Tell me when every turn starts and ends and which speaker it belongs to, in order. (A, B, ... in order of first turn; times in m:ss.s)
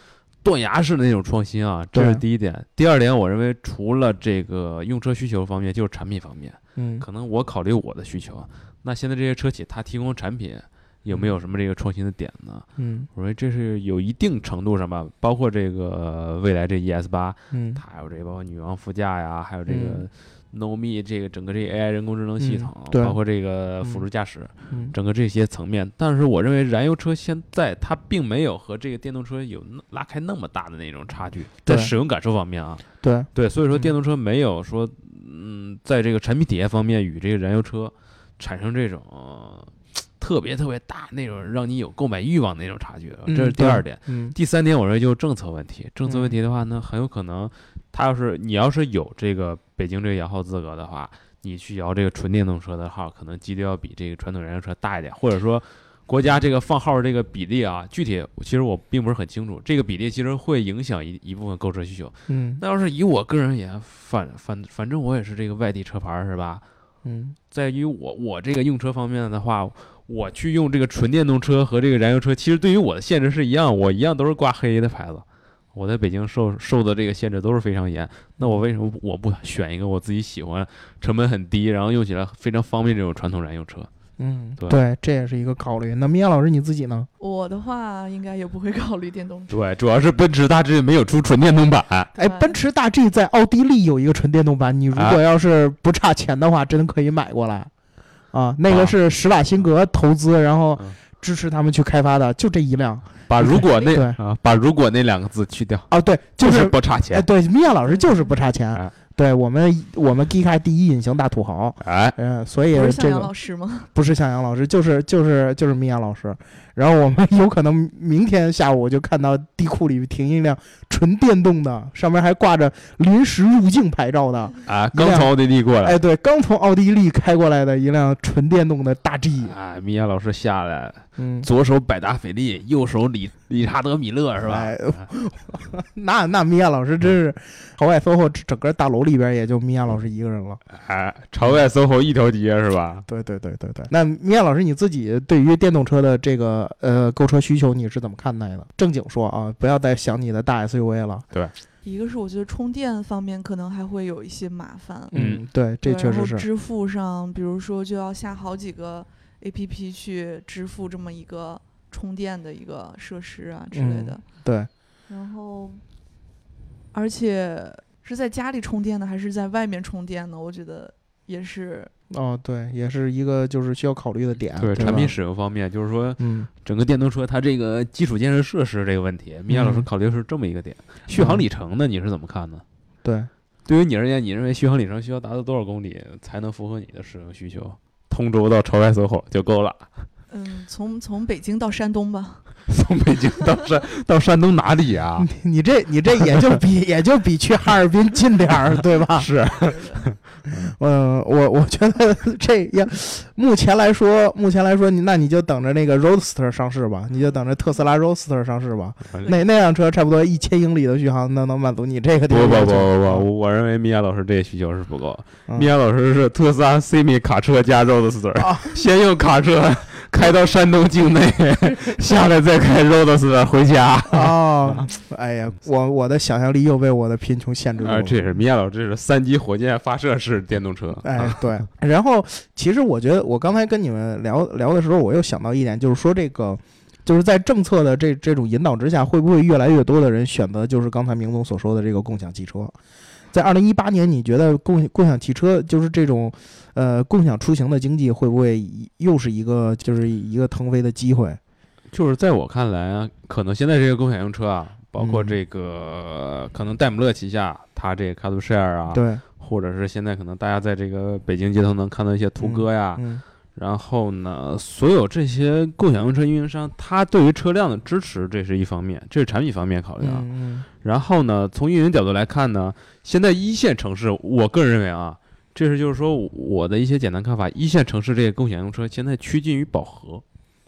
0:00.4-1:06.6 A
0:01.9-0:02.2 B
0:06.8-0:07.0 B
0:12.8-0:13.1 B
0:17.5-0:17.8 B
0:19.7-0:20.0 B
0:22.4-0:23.2 B
0:31.6-0:31.9 B
0:33.0-0:33.9 B
0:43.3-0:44.4 B
0:46.1-0:46.3 B
1:02.3-1:02.6 B
1:07.0-1:07.4 B
1:07.5-1:23.9 A
1:24.2-1:27.1 B
1:27.2-1:29.5 C
1:29.5-1:32.1 A
1:32.2-1:37.7 B
1:32.2-1:32.6 C
1:34.9-1:35.2 A
1:38.3-1:44.2 B
1:38.7-1:38.9 A
1:43.3-1:45.9 A
1:45.9-1:53.3 B
1:46.4-1:47.2 A
1:47.8-1:48.4 C
1:51.8-1:52.2 A
1:52.7-1:53.9 C
1:53.9-2:09.5 B
2:04.6-2:06.0 A
2:09.4-2:15.0 A
2:11.2-2:11.5 B
2:14.4-2:20.6 B
2:20.7-2:23.0 A
2:23.1-2:31.2 B
2:31.8-2:35.1 C
2:35.1-2:36.4 B
2:35.1-2:35.4 A
2:35.8-2:44.2 C
2:43.7-2:44.7 B
2:45.1-2:45.8 C
2:46.9-2:51.9 C
2:52.1-2:55.1 B
2:54.6-3:02.6 A
2:56.2-2:56.5 B
2:59.5-2:59.8 B
3:01.1-3:01.4 B
3:03.0-3:03.3 B
3:03.6-3:09.9 A
3:10.3-3:12.5 C
3:12.7-3:15.3 A
3:15.2-3:19.3 B
3:19.1-3:20.7 A
3:19.5-3:20.0 C
3:20.6-3:33.2 B
3:32.3-3:44.9 A
3:38.4-3:38.7 B
3:44.1-3:48.2 B
3:47.8-3:51.4 A
3:51.0-4:02.7 B
4:03.3-4:11.4 B
4:11.9-4:23.0 A
4:15.0-4:15.4 B
4:18.9-4:19.2 B
4:22.4-4:23.2 B
4:23.5-4:30.3 A
4:30.0-4:30.6 B
4:30.8-4:40.2 A